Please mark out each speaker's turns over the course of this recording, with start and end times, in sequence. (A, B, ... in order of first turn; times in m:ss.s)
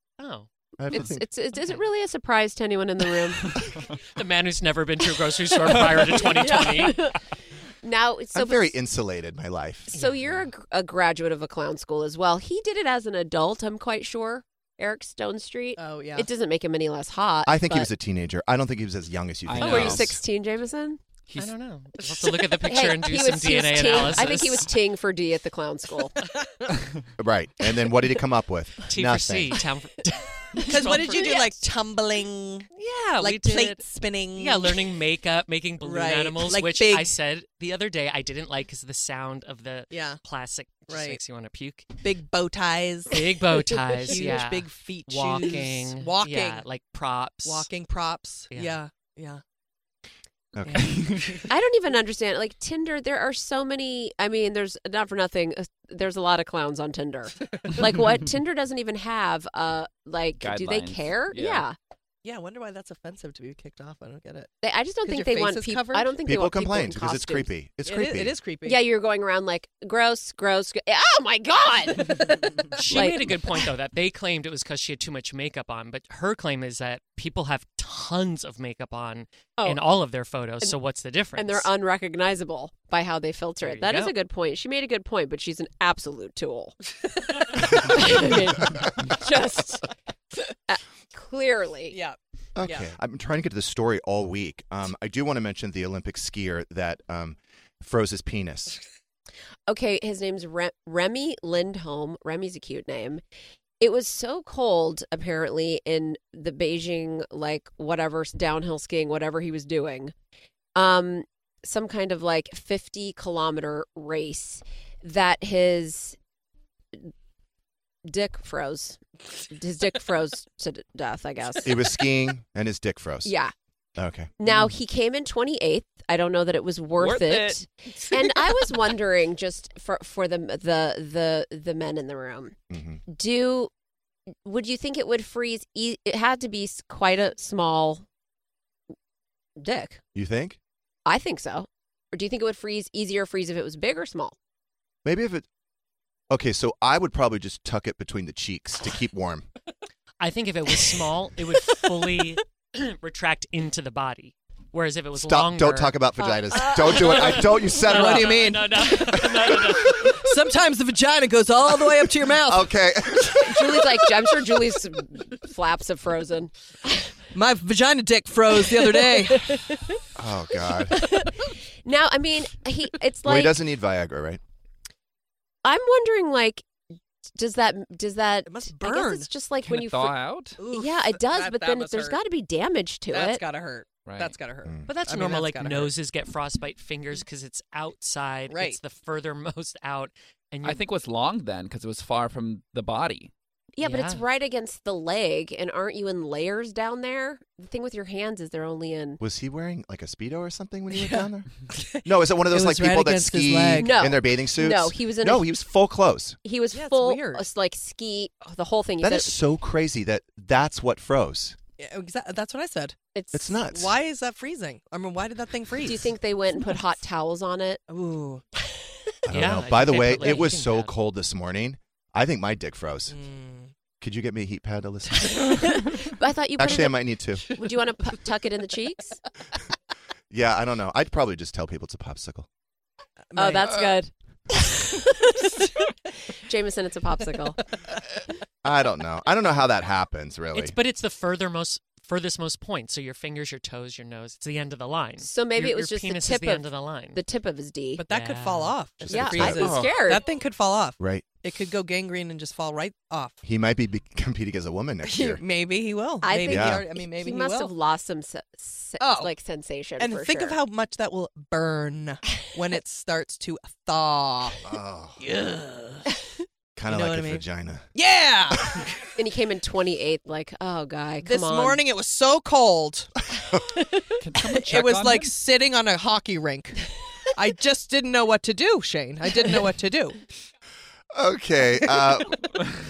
0:00.2-0:00.5 A
0:00.8-0:01.2 B
0:00.9-0:03.6 C
0:04.2-0:07.0 A
0:06.2-0:07.2 C
0:07.8-0:08.8 C
0:08.3-0:09.9 B
0:09.9-0:17.9 C
0:09.9-0:10.2 A
0:15.8-0:16.3 D
0:17.4-0:20.2 B
0:19.4-0:20.2 E
0:19.6-0:21.0 C
0:21.3-0:21.5 E
0:21.4-0:24.7 A
0:22.6-0:26.1 C
0:27.2-0:29.6 B
0:28.9-0:31.5 A
0:30.6-0:34.8 D
0:30.9-0:31.4 C
0:32.7-0:42.0 A
0:35.8-0:37.1 D
0:39.9-0:40.2 D
0:40.9-0:41.2 D
0:42.0-0:43.2 D
0:43.1-0:47.7 A
0:43.9-0:46.6 D
0:47.4-0:49.4 D
0:48.5-0:48.8 A
0:50.5-0:50.9 B
0:50.7-0:51.1 A
0:51.5-1:01.8 C
1:00.4-1:01.6 E
1:02.2-1:04.5 D
1:04.6-1:07.5 C
1:05.0-1:06.2 D
1:06.2-1:08.3 B
1:07.8-1:08.8 D
1:08.6-1:13.4 C
1:12.1-1:21.7 A
1:21.4-1:26.8 C
1:23.6-1:24.2 A
1:27.5-1:29.8 C
1:30.7-1:32.0 C
1:31.9-1:32.9 D
1:32.6-1:38.8 B
1:39.7-1:43.2 C
1:43.8-1:50.1 C
1:50.7-1:56.2 C
1:58.0-1:59.0 C
1:59.5-2:01.8 C
2:01.6-2:03.3 B
2:03.2-2:03.5 C
2:04.0-2:04.3 B
2:04.4-2:12.6 C
2:07.0-2:08.7 E
2:12.7-2:13.0 B
2:13.1-2:13.7 C
2:14.4-2:18.0 C
2:19.6-2:20.0 C
2:20.1-2:20.6 B
2:21.0-2:24.3 C
2:25.0-2:25.4 B
2:26.3-2:29.4 B
2:30.2-2:36.0 A
2:35.1-2:38.6 B
2:36.2-2:37.1 C
2:36.6-2:40.4 A
2:37.9-2:42.7 D
2:42.4-2:43.9 B
2:43.3-2:46.5 C
2:47.3-2:49.5 D
2:50.2-2:51.1 B
2:51.0-2:53.6 C
2:53.2-2:54.4 B
2:55.6-2:56.6 C
2:57.4-3:03.4 C
2:58.4-2:59.3 D
2:59.6-3:00.6 E
3:00.6-3:02.2 D
3:03.1-3:05.9 D
3:04.0-3:04.4 E
3:04.8-3:10.8 A
3:08.5-3:08.8 D
3:10.6-3:13.3 E
3:13.8-3:19.2 C
3:13.8-3:14.2 A
3:19.2-3:21.5 B
3:20.9-3:24.0 D
3:22.0-3:26.4 B
3:23.8-3:25.5 C
3:26.4-3:29.4 C
3:26.7-3:27.5 D
3:29.0-3:31.6 B
3:31.8-3:33.0 D
3:33.1-3:33.6 C
3:33.3-3:34.0 B
3:33.6-3:36.1 D
3:35.8-3:37.8 C
3:37.9-3:38.4 D
3:39.3-3:40.9 A
3:39.3-3:43.2 B
3:40.2-3:40.5 C
3:43.1-3:43.7 D
3:44.0-3:45.7 B
3:45.4-3:49.2 C
3:46.6-3:47.4 B
3:50.3-3:52.5 B
3:53.3-3:54.0 D
3:53.4-3:55.5 C
3:56.4-3:57.6 C
3:58.6-4:00.8 B
4:00.5-4:07.2 A
4:05.2-4:08.0 C
4:08.0-4:13.4 D
4:08.1-4:08.8 A
4:09.0-4:09.7 B
4:09.1-4:10.3 C
4:09.5-4:09.9 E
4:11.0-4:11.2 B
4:13.4-4:15.4 B
4:15.1-4:17.7 D
4:16.2-4:20.6 C
4:16.4-4:16.8 B
4:19.0-4:19.3 D
4:20.0-4:24.6 D
4:24.6-4:25.2 B
4:25.2-4:26.1 D
4:26.8-4:27.9 B
4:26.9-4:28.9 D
4:29.2-4:31.8 C
4:31.2-4:33.1 D
4:34.2-4:35.4 E
4:34.4-4:36.8 D
4:37.4-4:40.2 D
4:41.1-4:42.5 B